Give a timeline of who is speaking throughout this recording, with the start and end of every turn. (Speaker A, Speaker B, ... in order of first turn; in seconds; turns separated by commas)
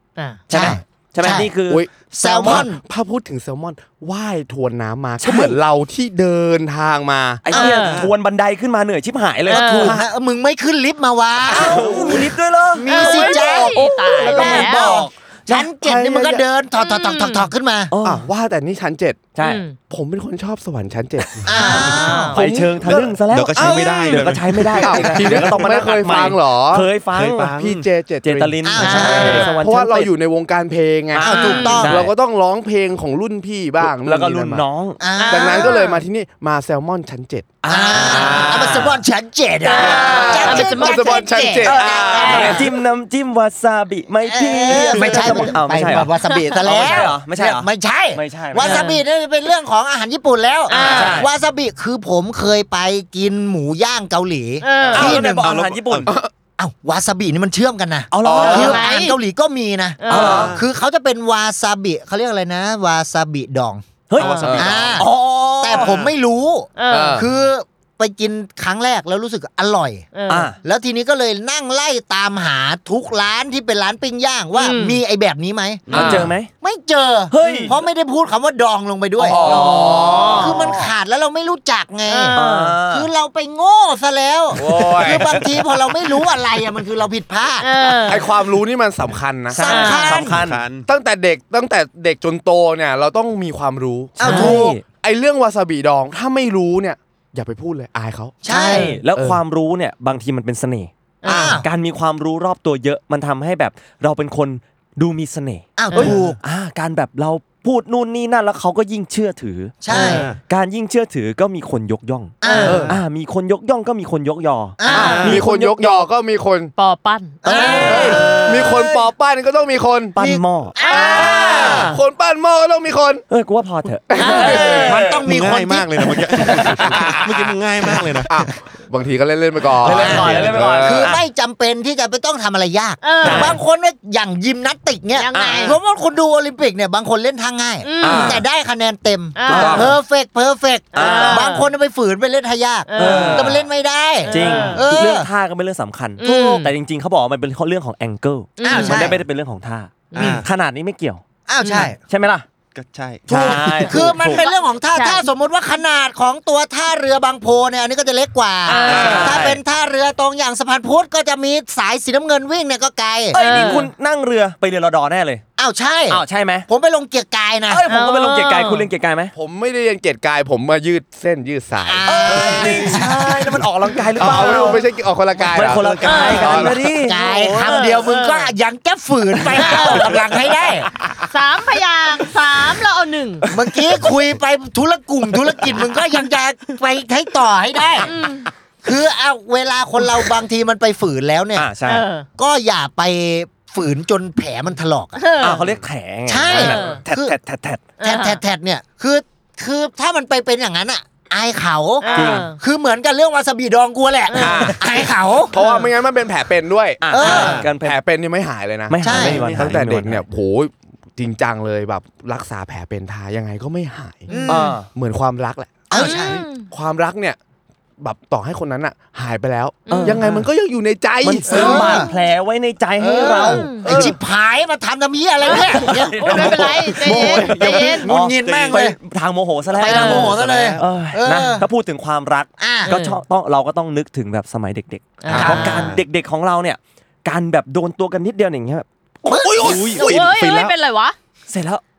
Speaker A: 0.2-0.6, Speaker B: 0.5-1.9, Speaker C: 0.5-1.5, Speaker D: 1.7-7.4, Speaker C: 2.1-2.8, Speaker B: 2.4-2.6, Speaker B: 5.2-5.6, Speaker B: 7.4-10.0, Speaker C: 7.5-8.1, Speaker A: 7.5-8.1, Speaker A: 9.5-9.9, Speaker C: 9.7-11.8, Speaker B: 11.5-15.7, Speaker D: 11.6-12.2, Speaker D: 12.8-14.6, Speaker C: 12.8-17.9, Speaker A: 12.9-15.0, Speaker D: 15.5-16.4, Speaker A: 16.8-17.5, Speaker B: 17.9-18.2, Speaker D: 18.0-19.2, Speaker B: 19.3-19.6, Speaker A: 19.4-19.8, Speaker D: 19.9-21.4, Speaker C: 21.4-22.4, Speaker A: 21.5-22.5, Speaker B: 22.3-27.5, Speaker D: 22.4-23.9, Speaker E: 22.8-26.2, Speaker A: 23.9-24.2, Speaker D: 24.8-26.9, Speaker E: 27.1-27.9, Speaker D: 27.6-34.6, Speaker B: 28.2-30.1, Speaker C: 28.6-29.5, Speaker A: 28.8-29.6, Speaker B: 31.1-32.1, Speaker C: 31.2-32.0, Speaker A: 31.3-31.9, Speaker B: 33.8-35.0, Speaker C: 35.0-35.7, Speaker A: 35.1-36.0, Speaker D: 35.3-38.9, Speaker B: 37.6-38.9, Speaker C: 37.7-42.6, Speaker A: 39.6-42.5, Speaker D: 39.7-42.7, Speaker B: 42.2-48.9, Speaker C: 44.2-55.5, Speaker D: 45.2-45.5, Speaker A: 48.6-49.0, Speaker A: 50.7-51.2, Speaker B: 50.8-51.3, Speaker A: 54.6-55.0, Speaker E: 54.8-56.1, Speaker B: 54.9-56.1, Speaker C: 56.6-63.8, Speaker B: 58.1-58.9, Speaker D: 58.2-58.7, Speaker A: 58.6-59.2, Speaker A: 60.0-60.5, Speaker E: 60.1-60.6, Speaker B: 60.1-60.5, Speaker B: 64.1-64.4, Speaker E: 64.2-65.0, Speaker D: 64.4-64.8, Speaker C: 64.5-65.1, Speaker B: 65.0-66.0, Speaker C: 65.6-70.1, Speaker E: 65.7-66.2, Speaker A: 66.8-67.2, Speaker D: 66.9-67.3, Speaker A: 70.1-70.5, Speaker B: 70.3-70.6, Speaker C: 70.6-79.7, Speaker A: 74.5-75.0, Speaker D: 75.9-76.3, Speaker B: 75.9-76.5, Speaker B: 77.3-77.8, Speaker D: 77.4-77.7, Speaker D: 79.2-80.8, Speaker B: 79.3-80.7, Speaker A: 79.5-80.5, Speaker C: 80.3-87.7, Speaker A: 82.0-82.8, Speaker B: 82.3-83.1, Speaker D: 84.5-85.4, Speaker A: 87.6-88.3, Speaker D: 88.0-89.7, Speaker C: 89.5-90.4, Speaker B: 89.5-90.6, Speaker A: 89.6-90.2, Speaker E: 90.2-90.9, Speaker D: 90.9-98.4, Speaker C: 94.2-94.7, Speaker B: 94.2-94.8, Speaker A: 94.2-94.5, Speaker C: 98.4-98.9, Speaker A: 98.5-99.0, Speaker B: 98.6-116.1, Speaker D: 99.1-99.4, Speaker A: 101.2-101.6, Speaker C: 101.2-101.7, Speaker C: 105.8-106.4, Speaker D: 105.9-106.3, Speaker C: 109.8-110.3, Speaker A: 109.9-110.2, Speaker E: 110.0-110.4, Speaker C: 112.4-112.9, Speaker A: 112.4-112.8, Speaker D: 112.6-113.0, Speaker C: 114.8-115.3, Speaker A: 114.9-115.2, Speaker D: 114.9-116.7, Speaker E: 115.1-115.4, Speaker A: 116.8-118.2, Speaker C: 117.4-119.1, Speaker E: 117.6-118.8, Speaker D: 117.7-120.2, Speaker B: 120.1-120.8, Speaker C: 120.2-121.9, Speaker A: 120.8-122.0, Speaker D: 120.9-123.2, Speaker B: 123.3-125.2, Speaker D: 124.1-124.8, Speaker A: 124.1-124.9, Speaker C: 124.3-126.1, Speaker E: 125.1-128.3, Speaker D: 126.6-127.4, Speaker D: 128.2-131.2, Speaker B: 129.8-131.2, Speaker C: 129.9-145.3, Speaker A: 133.0-133.5, Speaker B: 133.2-133.6, Speaker A: 135.1-135.8, Speaker B: 135.3-135.8, Speaker A: 137.8-138.4, Speaker D: 138.0-138.4, Speaker A: 139.3-139.9, Speaker B: 139.5-139.9, Speaker D: 139.5-139.9, Speaker A: 140.9-141.7, Speaker B: 140.9-141.5, Speaker A: 142.9-143.4, Speaker B: 142.9-143.7, Speaker A: 144.2-144.9, Speaker B: 144.3-151.2, Speaker A: 146.2-146.7, Speaker C: 146.2-146.6, Speaker A: 148.6-149.1, Speaker C: 148.6-149.2, Speaker A: 150.1-150.4, Speaker E: 150.1-150.5, Speaker C: 151.5-152.0, Speaker A: 151.6-151.9, Speaker B: 152.1-152.4, Speaker E: 152.7-153.8, Speaker B: 153.3-154.5, Speaker C: 153.3-163.8, Speaker A: 154.3-155.3, Speaker A: 158.7-159.4, Speaker B: 158.7-159.6, Speaker E: 158.8-159.5, Speaker B: 163.3-165.4, Speaker A: 163.3-163.9, Speaker C: 165.6-167.8, Speaker B: 166.1-166.7, Speaker B: 167.7-169.3, Speaker A: 167.9-168.9, Speaker D: 169.3-172.7, Speaker C: 171.8-173.6, Speaker B: 172.1-174.8, Speaker D: 174.2-176.7, Speaker E: 174.2-174.5, Speaker B: 175.4-177.3, Speaker E: 175.7-176.7, Speaker A: 176.0-176.5, Speaker C: 176.4-180.9, Speaker A: 177.1-178.5, Speaker A: 179.5-180.2, Speaker A: 181.2-183.5, Speaker C: 183.5-188.1, Speaker A: 188.0-188.5, Speaker C: 188.8-191.7, Speaker B: 191.6-192.0, Speaker A: 191.8-192.3, Speaker C: 192.4-195.2, Speaker A: 195.2-195.6, Speaker B: 195.4-197.9, Speaker C: 196.2-197.3, Speaker A: 196.6-197.0, Speaker A: 198.0-198.4, Speaker C: 198.0-205.5, Speaker A: 202.0-202.6, Speaker B: 202.1-202.5, Speaker A: 204.3-204.7, Speaker D: 204.4-204.8, Speaker D: 205.5-207.1, Speaker A: 205.5-205.9, Speaker B: 207.0-208.0, Speaker C: 207.1-207.6, Speaker E: 207.2-207.7, Speaker D: 207.6-217.4, Speaker B: 208.9-210.2, Speaker C: 209.0-209.4, Speaker E: 209.1-209.8, Speaker C: 214.3-214.7, Speaker B: 214.5-214.9, Speaker C: 215.9-216.5, Speaker A: 215.9-216.7, Speaker D: 218.0-221.9, Speaker A: 219.9-220.2, Speaker B: 219.9-220.5, Speaker B: 221.2-224.2, Speaker C: 221.5-222.1, Speaker A: 221.6-222.0, Speaker C: 223.0-229.0, Speaker A: 223.2-223.9, Speaker A: 225.4-228.1, Speaker B: 225.7-240.3, Speaker E: 226.4-228.9, Speaker C: 229.8-231.7, Speaker A: 229.8-230.4, Speaker C: 232.6-232.9, Speaker A: 232.8-233.2, Speaker A: 235.2-235.9, Speaker D: 235.3-235.6, Speaker E: 235.3-236.0, Speaker C: 239.2-239.8, Speaker E: 239.6-240.7, Speaker A: 239.9-241.2, Speaker B: 241.5-241.8